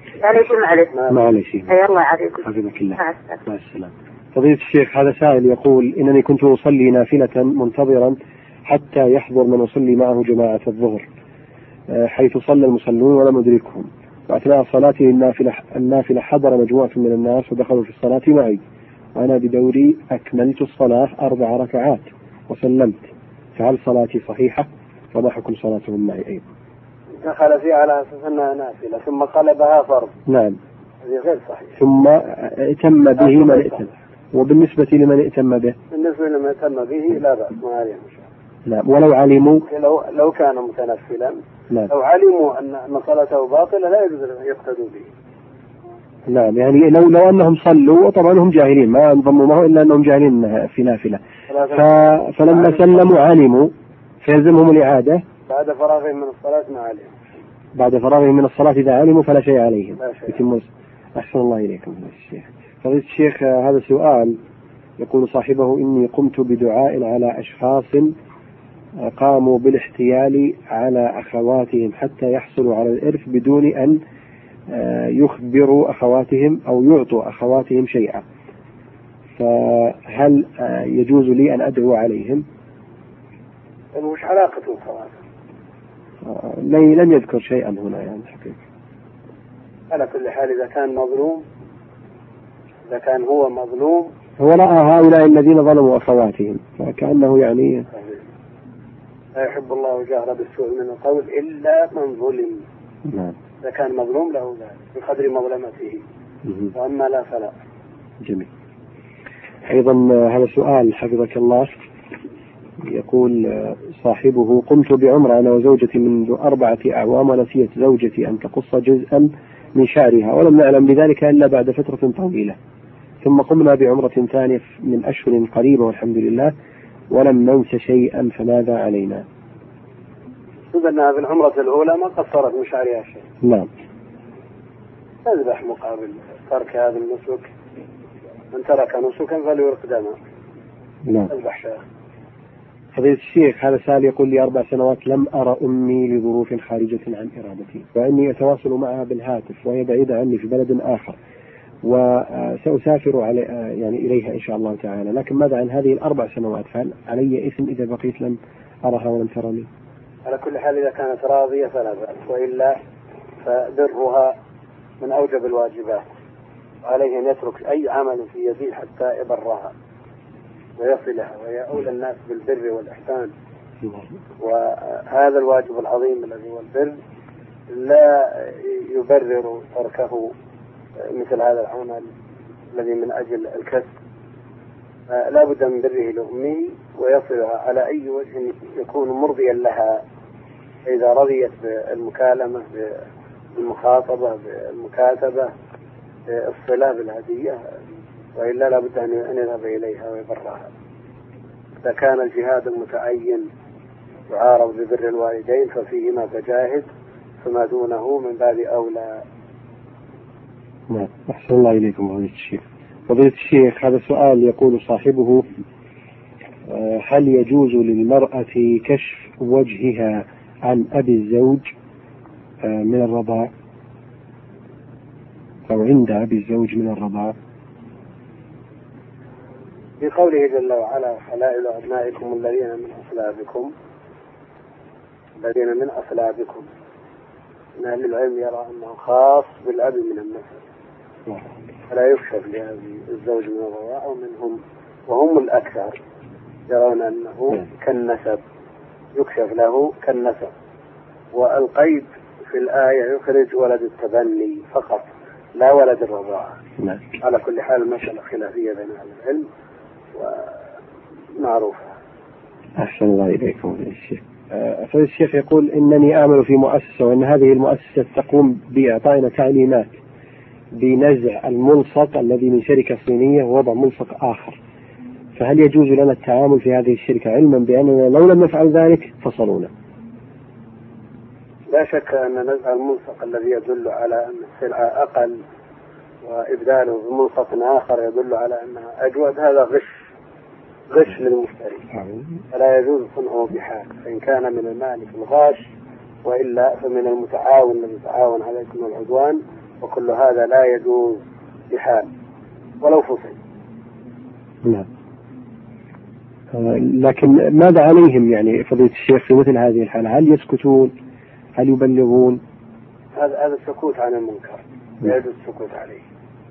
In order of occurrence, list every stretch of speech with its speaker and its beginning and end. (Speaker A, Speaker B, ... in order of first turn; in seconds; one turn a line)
Speaker A: 0.2-0.9
Speaker B: 1.1-1.8
Speaker A: 1.7-2.4
Speaker B: 2.4-11.1
Speaker A: 3.0-3.4
Speaker B: 11.9-18.6
Speaker B: 19.1-26.5
Speaker C: 27.2-30.1
Speaker B: 30.3-30.6
Speaker C: 31.0-31.8
Speaker B: 31.8-35.8
Speaker C: 33.2-33.8
Speaker C: 35.9-38.3
Speaker B: 38.7-39.7
Speaker C: 39.7-45.1
Speaker B: 46.3-51.2
Speaker C: 51.5-51.9
Speaker B: 51.7-55.2
Speaker C: 55.5-57.2
Speaker B: 57.8-64.4
Speaker C: 60.0-60.4
Speaker B: 65.0-68.1
Speaker B: 69.0-74.0
Speaker B: 74.7-78.2
Speaker B: 79.4-82.5
Speaker C: 83.9-85.1
Speaker B: 86.2-88.6
Speaker C: 89.9-91.4
Speaker C: 92.9-94.1
Speaker B: 94.4-97.9
Speaker C: 97.9-98.2
Speaker C: 99.3-102.6
Speaker B: 103.1-103.3
Speaker C: 103.6-106.0
Speaker C: 106.7-107.5
Speaker B: 108.2-108.5
Speaker B: 109.7-111.7
Speaker B: 112.8-122.6
Speaker B: 123.2-126.5
Speaker B: 127.1-129.2
Speaker C: 130.7-133.2
Speaker B: 133.4-133.7
Speaker C: 135.2-137.5
Speaker C: 138.5-140.2
Speaker B: 141.1-141.3
Speaker C: 141.3-141.8
Speaker B: 142.9-151.2
Speaker B: 151.8-159.7
Speaker C: 160.3-162.8
Speaker C: 163.4-164.3
Speaker C: 165.0-166.0
Speaker C: 166.8-169.7
Speaker C: 170.8-173.3
Speaker B: 173.8-174.1
Speaker C: 174.4-177.0
Speaker C: 177.7-180.3
Speaker C: 181.0-182.1
Speaker C: 182.7-183.9
Speaker C: 185.1-190.0
Speaker C: 190.9-193.0
Speaker C: 193.6-195.5
Speaker C: 196.3-197.6
Speaker C: 198.4-200.7
Speaker C: 201.8-203.5
Speaker C: 204.3-206.9
Speaker C: 207.4-209.2
Speaker B: 210.9-215.5
Speaker B: 216.7-221.7
Speaker B: 222.6-223.5
Speaker B: 225.7-227.3
Speaker C: 230.0-233.7
Speaker C: 235.4-236.7
Speaker C: 237.8-240.6
Speaker C: 241.9-246.0
Speaker C: 246.7-248.4
Speaker C: 249.2-250.5
Speaker C: 251.3-256.6
Speaker C: 257.2-259.5
Speaker C: 260.1-260.6
Speaker C: 261.4-261.9
Speaker B: 262.8-269.9
Speaker B: 270.7-274.6
Speaker B: 275.4-279.7
Speaker C: 281.7-285.4
Speaker C: 286.2-290.0
Speaker C: 290.9-291.9
Speaker B: 292.0-292.3
Speaker C: 292.5-295.6
Speaker C: 296.2-302.1
Speaker C: 302.8-303.4
Speaker B: 306.5-310.9
Speaker B: 311.6-312.4
Speaker C: 313.1-316.0